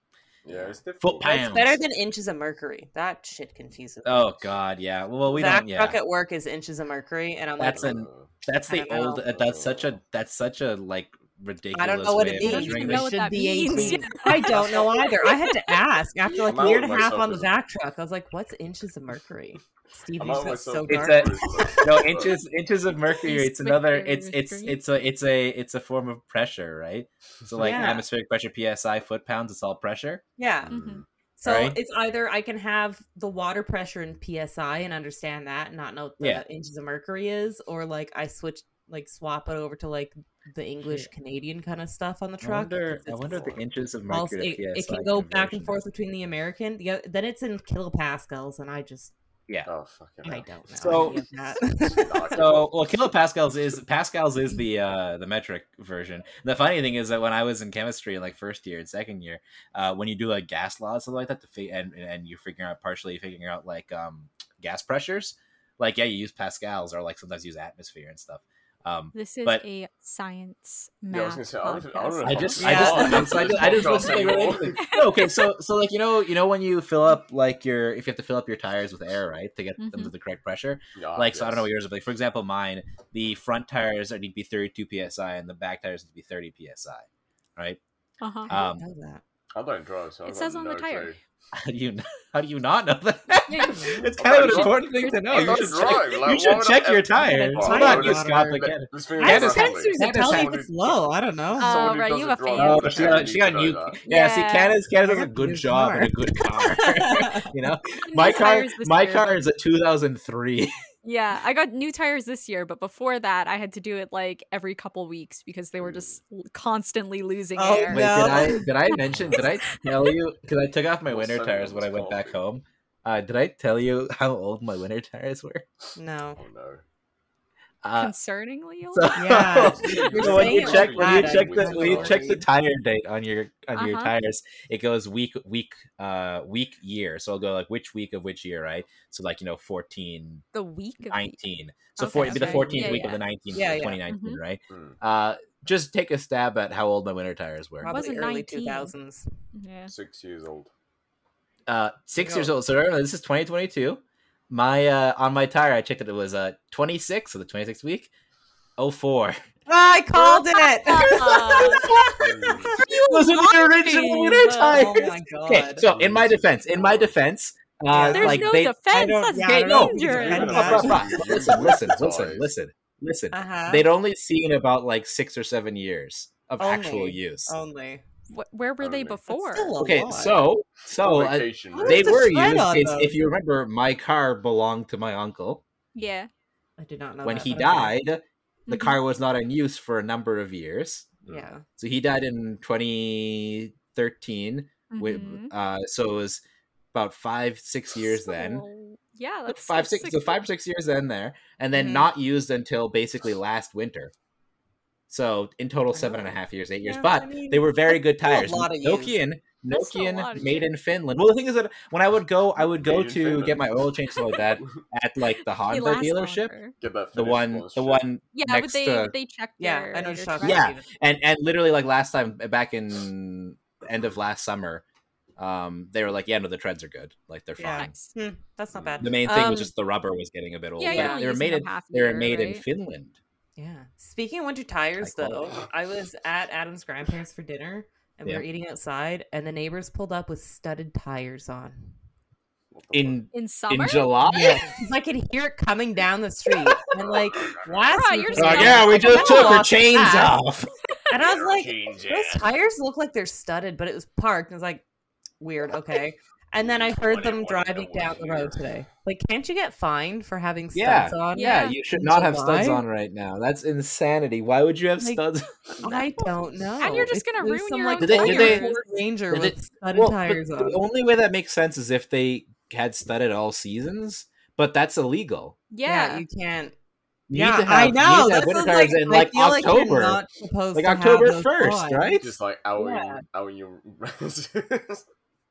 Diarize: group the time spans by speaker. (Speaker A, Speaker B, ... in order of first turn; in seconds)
Speaker A: 0.4-1.4, 7.8-8.3, 9.2-10.0, 14.5-14.9, 16.4-17.5, 20.2-22.3, 30.6-31.1, 49.6-51.1, 51.6-53.1, 71.1-74.9, 81.0-81.7, 89.5-91.2, 94.1-104.0, 115.8-116.1, 119.1-119.5, 121.1-122.4, 126.4-126.8, 129.6-132.4, 144.7-145.0, 149.9-150.7, 162.2-162.8, 165.8-167.1, 170.1-172.5, 178.8-179.2, 181.0-182.3, 212.6-213.7, 214.4-214.8, 216.8-218.0, 228.7-229.1, 242.7-243.2, 247.1-247.9, 251.1-252.5, 256.6-258.7, 282.2-285.1
Speaker B: 0.5-4.4, 5.2-8.0, 8.7-9.3, 11.7-22.1, 27.6-28.0, 30.4-30.7, 31.4-49.1, 50.2-52.2, 72.6-73.4, 88.5-89.2, 93.5-94.2, 97.1-101.9, 105.0-106.1, 106.7-107.5, 117.5-118.7, 126.0-126.4, 129.1-132.4, 142.2-144.0, 147.8-149.3, 152.2-152.5, 159.7-162.8, 164.5-165.9, 167.9-171.4, 173.3-173.8, 176.6-178.0, 179.3-180.4, 181.7-183.2, 186.8-187.9, 191.2-191.6, 201.7-202.1, 205.9-209.2, 219.6-220.8, 227.6-229.7, 230.8-231.2, 233.6-241.9, 244.2-250.4, 251.1-254.8, 255.4-262.8, 265.8-270.8, 275.8-276.7, 277.3-282.2, 282.8-283.2
Speaker C: 1.0-1.8, 4.0-6.0, 7.6-14.0, 20.9-30.2, 31.4-31.8, 40.8-41.1, 42.4-45.8, 50.8-51.2, 52.3-69.6, 72.2-87.8, 88.5-88.8, 91.5-100.5, 102.5-110.7, 117.9-125.6, 127.8-128.1, 128.9-140.4, 141.1-147.9, 151.7-158.1, 158.8-159.4, 161.1-168.8, 169.4-177.5, 179.8-185.6, 187.2-191.1, 191.8-196.4, 196.9-198.6, 199.5-204.1, 205.1-216.5, 217.1-219.1, 220.4-224.8, 225.4-227.9, 229.0-233.2, 235.0-235.5, 242.9-244.6, 248.3-250.7, 260.7-265.5, 268.0-268.6, 269.3-275.6, 277.3-280.2, 280.7-282.3
Speaker D: 12.4-15.5, 23.1-24.8, 30.7-31.0, 69.1-73.1, 74.8-75.1, 79.8-80.1, 88.2-88.5, 90.2-91.2, 94.5-95.9, 101.6-103.3, 104.0-104.8, 108.0-109.4, 111.0-120.1, 128.0-129.7, 133.7-134.1, 140.5-141.3, 142.0-143.2, 144.1-144.4, 147.8-148.9, 149.5-149.9, 160.1-161.9, 162.8-164.9, 168.1-171.0, 178.3-179.8, 185.9-186.3, 188.7-189.0, 194.9-195.5, 198.2-200.4, 209.7-210.7, 214.1-214.4, 215.5-216.7, 218.3-220.6, 227.8-228.1, 230.8-232.6, 243.3-244.6, 247.9-249.6, 261.3-261.7, 265.8-266.1, 266.8-268.9, 275.7-276.2